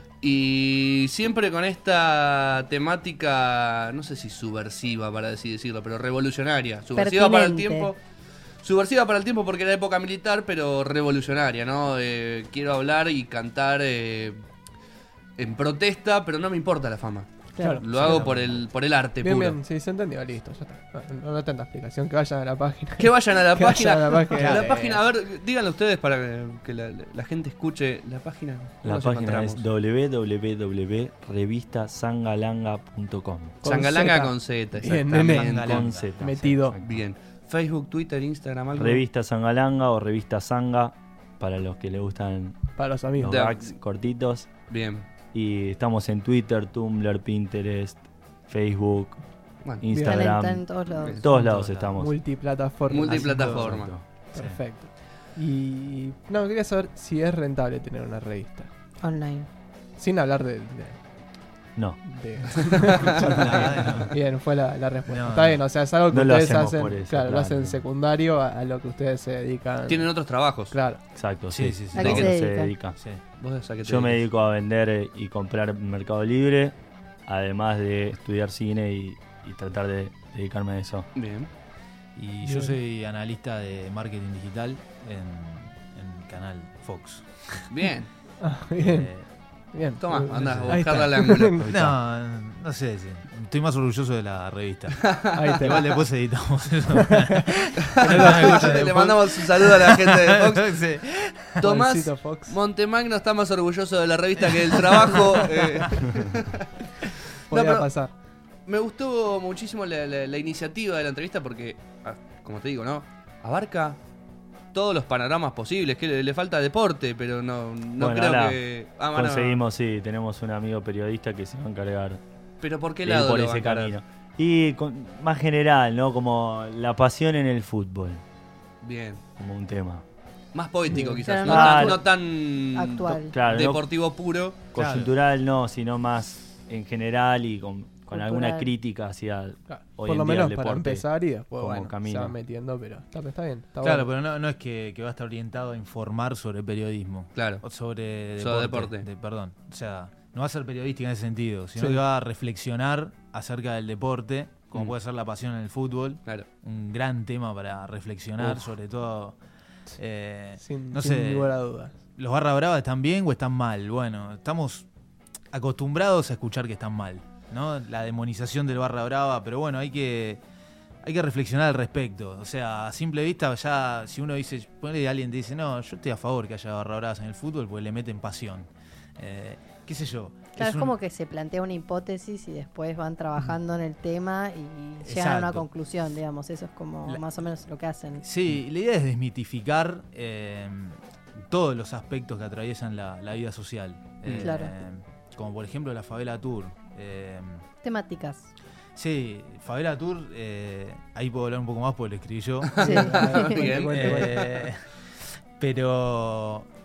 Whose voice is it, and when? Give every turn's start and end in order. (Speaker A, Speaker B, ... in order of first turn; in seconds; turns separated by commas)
Speaker A: 0.2-8.0, Speaker B: 6.9-7.9, Speaker A: 8.6-14.4, Speaker A: 15.4-17.3, Speaker B: 17.5-17.8, Speaker C: 17.6-18.2, Speaker A: 17.8-19.6, Speaker D: 17.9-18.6, Speaker C: 19.2-25.0, Speaker A: 23.0-29.6, Speaker E: 28.8-33.6, Speaker C: 33.6-36.8, Speaker A: 33.6-36.0, Speaker D: 35.1-36.1, Speaker E: 35.5-36.9, Speaker A: 36.8-39.0, Speaker E: 38.7-42.6, Speaker C: 42.8-43.5, Speaker E: 43.1-44.5, Speaker A: 43.3-43.7, Speaker A: 44.7-45.1, Speaker E: 45.3-49.2, Speaker E: 49.8-52.2, Speaker C: 49.9-50.2, Speaker B: 50.0-51.2, Speaker A: 51.0-51.3, Speaker D: 51.5-51.9, Speaker C: 52.0-58.7, Speaker A: 52.9-53.9, Speaker E: 53.0-54.1, Speaker B: 59.0-59.5, Speaker C: 60.0-61.0, Speaker E: 61.8-62.0, Speaker C: 62.0-70.1, Speaker A: 62.6-63.4, Speaker D: 63.0-64.2, Speaker D: 65.1-65.6, Speaker E: 66.1-67.8, Speaker A: 69.9-70.8, Speaker C: 70.7-71.0, Speaker E: 71.1-73.0, Speaker D: 71.5-72.3, Speaker B: 71.9-72.7, Speaker A: 73.4-74.2, Speaker E: 73.8-81.1, Speaker A: 81.1-81.5, Speaker D: 82.1-87.7, Speaker C: 82.5-82.7, Speaker A: 87.7-88.1, Speaker C: 88.4-89.1, Speaker D: 88.8-89.3, Speaker C: 89.7-91.9, Speaker A: 90.0-91.6, Speaker D: 90.3-101.6, Speaker A: 95.0-95.8, Speaker C: 95.3-96.0, Speaker C: 96.9-97.5, Speaker A: 97.9-100.8, Speaker C: 98.0-98.8, Speaker A: 101.6-106.7, Speaker C: 101.6-102.5, Speaker A: 107.5-107.9, Speaker C: 107.5-108.1, Speaker A: 108.7-114.0, Speaker A: 114.7-119.6, Speaker E: 118.0-122.2, Speaker A: 122.6-123.9, Speaker E: 123.0-128.2, Speaker A: 128.8-129.2, Speaker E: 129.4-130.0, Speaker A: 130.5-134.6, Speaker C: 130.9-131.4, Speaker B: 131.2-132.1, Speaker E: 131.4-132.0, Speaker B: 132.7-133.3, Speaker E: 133.3-133.8, Speaker E: 134.7-142.3, Speaker D: 134.8-135.1, Speaker B: 138.1-138.7, Speaker C: 139.7-144.1, Speaker D: 143.8-159.4, Speaker A: 147.3-147.6, Speaker A: 148.4-149.1, Speaker D: 160.0-161.5, Speaker C: 160.6-161.9, Speaker D: 162.2-164.9, Speaker D: 165.5-170.4, Speaker D: 171.0-180.9, Speaker B: 180.6-188.2, Speaker D: 185.0-185.7, Speaker D: 188.2-197.6, Speaker A: 194.2-194.5, Speaker B: 194.4-194.7, Speaker B: 197.8-198.5, Speaker D: 198.9-204.8, Speaker A: 202.7-204.4, Speaker C: 202.8-204.7, Speaker B: 202.8-203.6, Speaker D: 205.6-206.7